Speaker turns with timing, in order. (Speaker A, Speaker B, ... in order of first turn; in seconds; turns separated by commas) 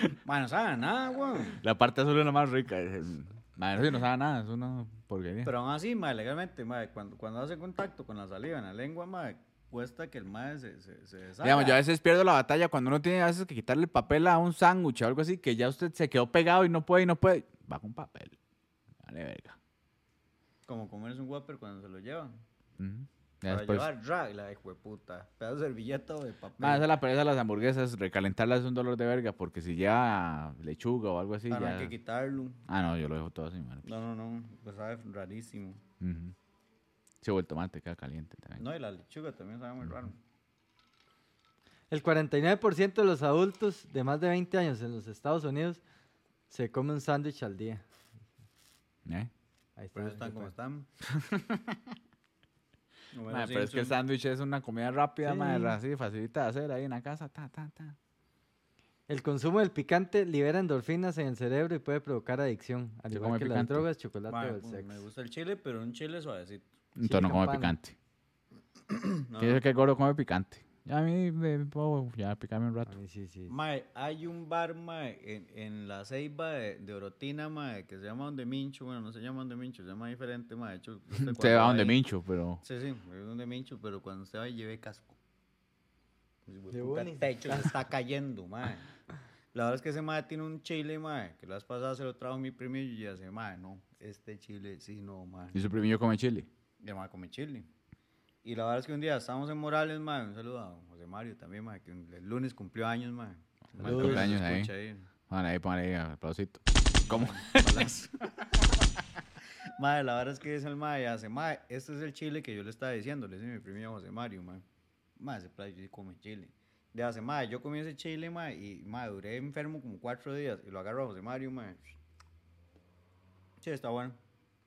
Speaker A: 0.2-1.6, Speaker B: 1.6-5.5, Speaker A: 5.4-11.8, Speaker B: 11.4-18.4, Speaker B: 19.0-19.6, Speaker A: 20.7-22.3, Speaker B: 22.8-23.9, Speaker A: 23.5-26.9, Speaker B: 26.6-31.9, Speaker A: 31.5-32.6, Speaker B: 32.6-33.9, Speaker A: 33.8-35.8, Speaker B: 36.0-36.3, Speaker B: 37.2-38.6, Speaker A: 38.6-40.2, Speaker C: 41.9-45.8, Speaker C: 46.5-47.8, Speaker B: 49.0-49.3, Speaker C: 49.8-50.5, Speaker A: 49.9-50.9, Speaker B: 51.0-51.8, Speaker A: 53.1-54.0, Speaker B: 53.3-58.0, Speaker C: 55.3-55.7, Speaker C: 59.1-65.0, Speaker B: 63.1-63.9, Speaker A: 64.3-66.6, Speaker B: 67.0-67.9, Speaker C: 67.0-67.8, Speaker A: 68.9-69.6, Speaker B: 69.4-72.9, Speaker C: 72.8-73.5, Speaker A: 73.5-82.0, Speaker B: 81.2-82.6, Speaker A: 82.6-85.2, Speaker A: 86.5-88.9, Speaker C: 86.7-87.7, Speaker A: 89.5-95.6, Speaker B: 95.5-96.5, Speaker A: 96.8-97.7, Speaker A: 98.4-105.1, Speaker C: 103.8-104.3, Speaker B: 103.8-104.7, Speaker B: 105.3-107.9, Speaker A: 107.1-108.7, Speaker A: 109.8-114.6, Speaker A: 115.2-121.9, Speaker A: 123.6-124.2